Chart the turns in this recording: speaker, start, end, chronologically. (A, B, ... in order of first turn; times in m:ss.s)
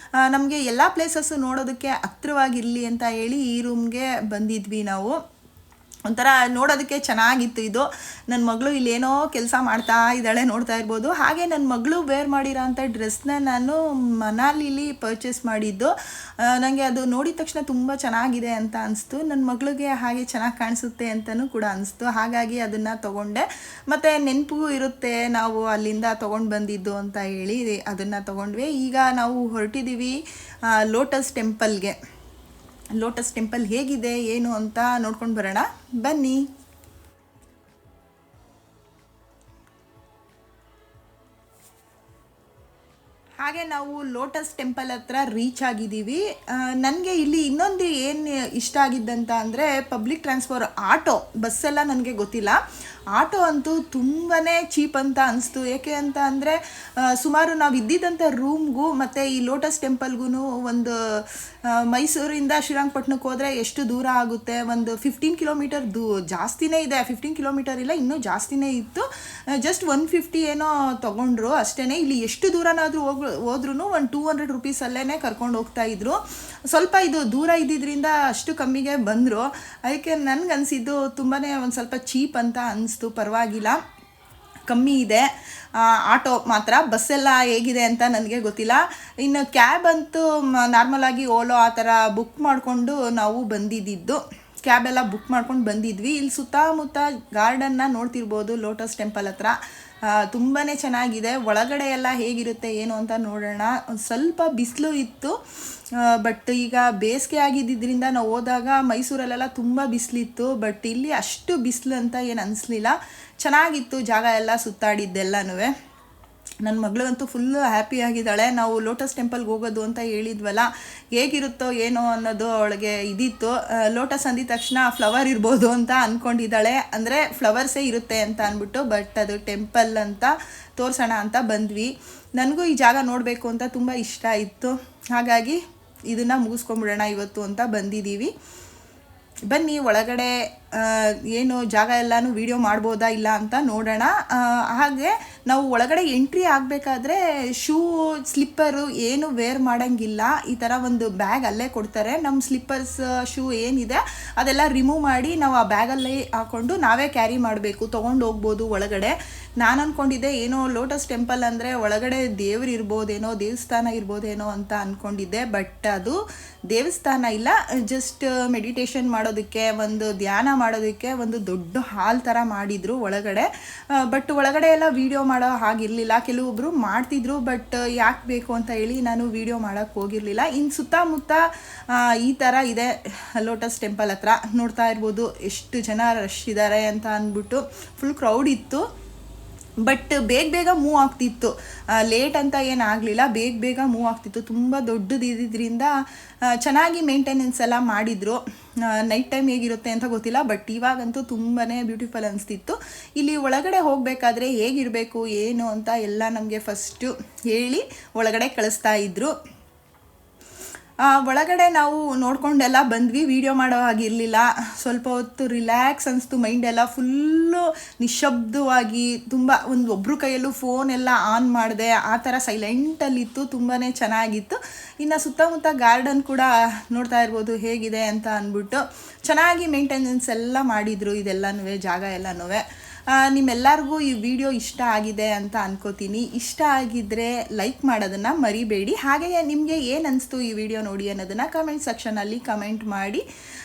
0:00.2-0:05.2 A
0:06.1-0:32.0 A
0:33.0-0:36.5 A
0:43.4-0:52.6 A
0:53.1-1:09.1 A
1:09.6-1:23.8 A
1:24.7-1:39.6 A
1:40.1-1:45.4 A
1:45.9-1:55.7 A
1:56.6-2:18.3 A
2:19.5-2:46.2 A
2:46.7-3:08.8 A
3:09.8-3:15.9 A
3:16.4-3:29.3 A
3:31.0-4:03.2 A